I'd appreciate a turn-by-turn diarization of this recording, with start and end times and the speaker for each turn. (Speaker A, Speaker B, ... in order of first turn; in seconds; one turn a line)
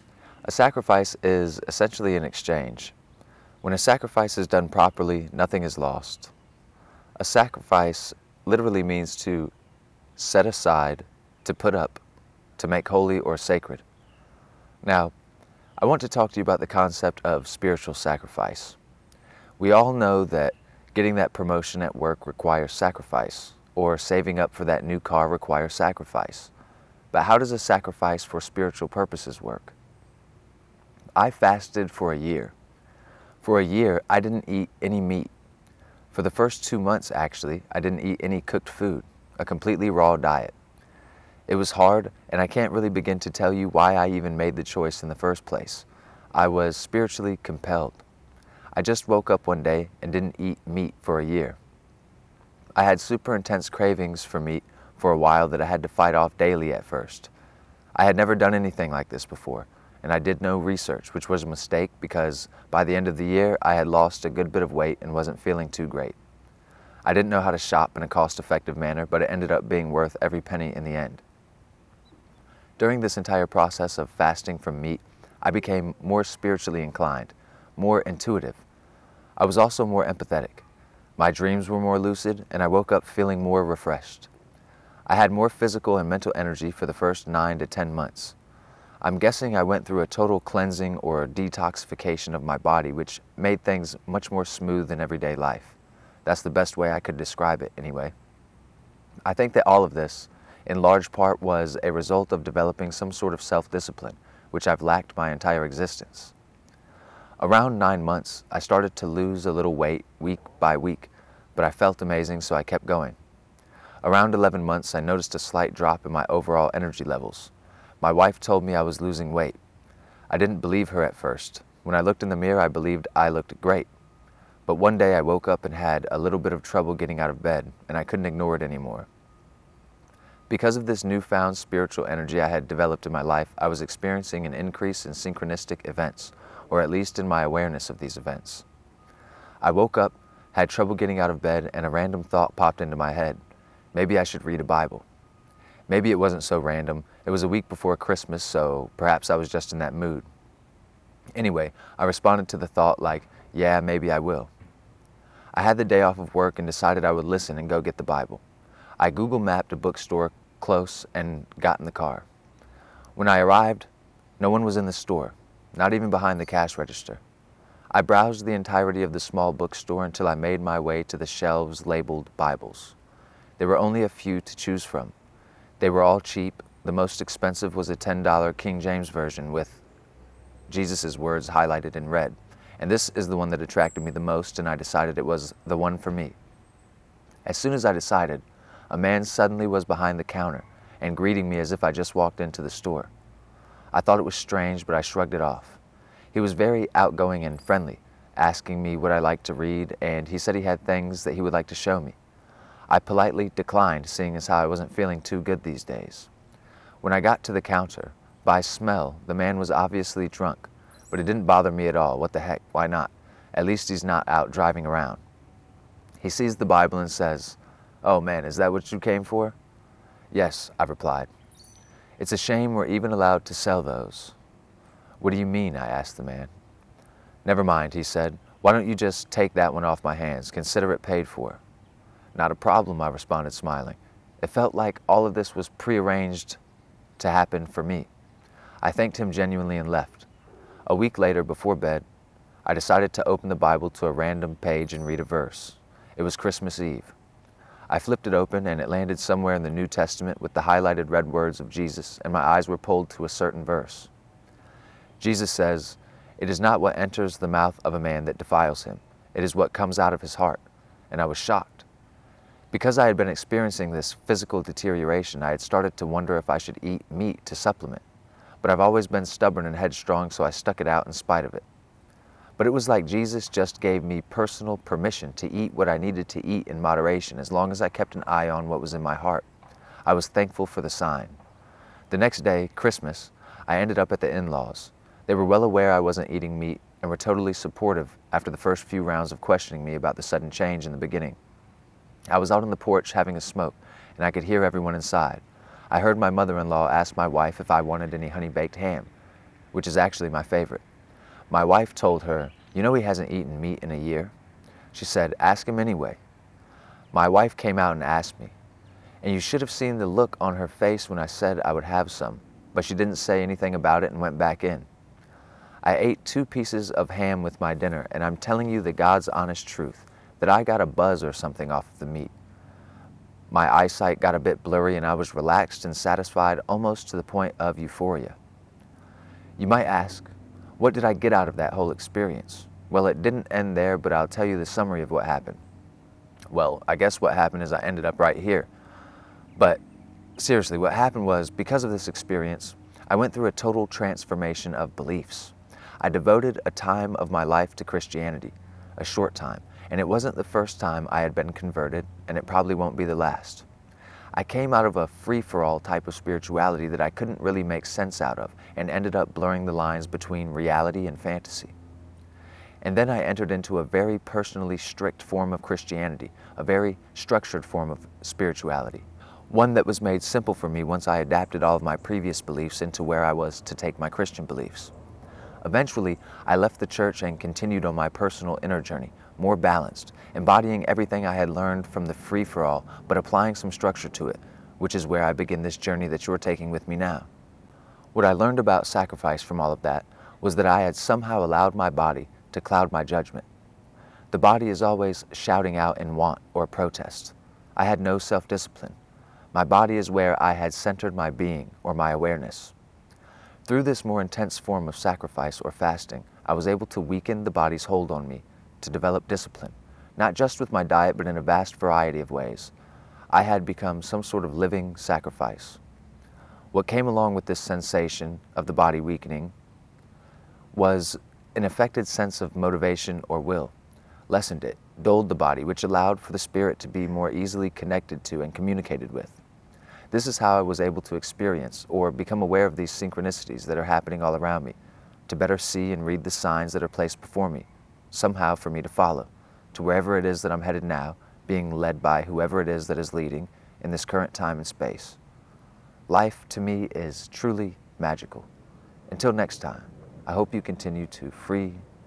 Speaker A: 0.4-2.9
Speaker A: 3.6-6.3
Speaker A: 7.2-9.5
Speaker A: 10.2-12.0
Speaker A: 12.6-13.8
Speaker A: 14.8-15.1
Speaker A: 15.8-18.8
Speaker A: 19.6-26.5
Speaker A: 27.1-29.7
Speaker A: 31.1-32.5
Speaker A: 33.4-35.3
Speaker A: 36.1-40.5
Speaker A: 41.5-48.0
Speaker A: 48.7-51.6
Speaker A: 52.8-57.3
Speaker A: 58.0-66.2
Speaker A: 67.0-71.2
Speaker A: 72.8-78.6
Speaker A: 79.4-80.6
Speaker A: 81.2-84.3
Speaker A: 85.1-88.3
Speaker A: 89.0-98.1
Speaker A: 99.2-106.3
Speaker A: 107.4-113.2
Speaker A: 114.0-119.6
Speaker A: 120.3-123.9
Speaker A: 124.7-129.1
Speaker A: 130.5-138.6
Speaker A: 139.6-143.4
Speaker A: 143.9-145.1
Speaker A: 145.9-150.3
Speaker A: 151.3-154.5
Speaker A: 155.5-158.4
Speaker A: 159.0-162.2
Speaker A: 163.2-167.2
Speaker A: 167.9-172.9
Speaker A: 173.6-175.1
Speaker A: 175.8-179.8
Speaker A: 180.7-186.3
Speaker A: 187.4-193.1
Speaker A: 193.9-195.8
Speaker A: 196.3-202.2
Speaker A: 202.9-206.3
Speaker A: 207.0-215.2
Speaker A: 216.2-219.6
Speaker A: 220.3-221.3
Speaker A: 222.2-224.3
Speaker A: 225.2-226.5
Speaker A: 227.4-231.6
Speaker A: 232.3-236.6
Speaker A: 237.2-238.1
Speaker A: 238.8-240.3
Speaker A: 240.9-242.0
Speaker A: 242.7-247.1
Speaker A: 247.9-254.1
Speaker A: 255.2-261.9
Speaker A: 262.7-268.0
Speaker A: 268.6-271.6
Speaker A: 272.6-279.4
Speaker A: 280.1-281.4
Speaker A: 282.1-291.4
Speaker A: 292.3-299.1
Speaker A: 299.7-300.8
Speaker A: 301.5-304.3
Speaker A: 304.9-306.2
Speaker A: 307.1-308.5
Speaker A: 309.2-314.9
Speaker A: 315.8-322.3
Speaker A: 323.5-328.4
Speaker A: 329.6-335.6
Speaker A: 336.5-338.7
Speaker A: 339.6-339.8
Speaker A: 340.4-353.6
Speaker A: 354.3-361.7
Speaker A: 362.8-374.9
Speaker A: 375.6-387.3
Speaker A: 388.1-393.4
Speaker A: 394.3-398.9
Speaker A: 399.5-402.7
Speaker A: 403.6-412.7
Speaker A: 413.3-415.8
Speaker A: 416.7-419.5
Speaker A: 420.7-423.7
Speaker A: 424.3-429.4
Speaker A: 430.1-434.8
Speaker A: 435.3-445.2
Speaker A: 446.1-448.5
Speaker A: 449.1-451.8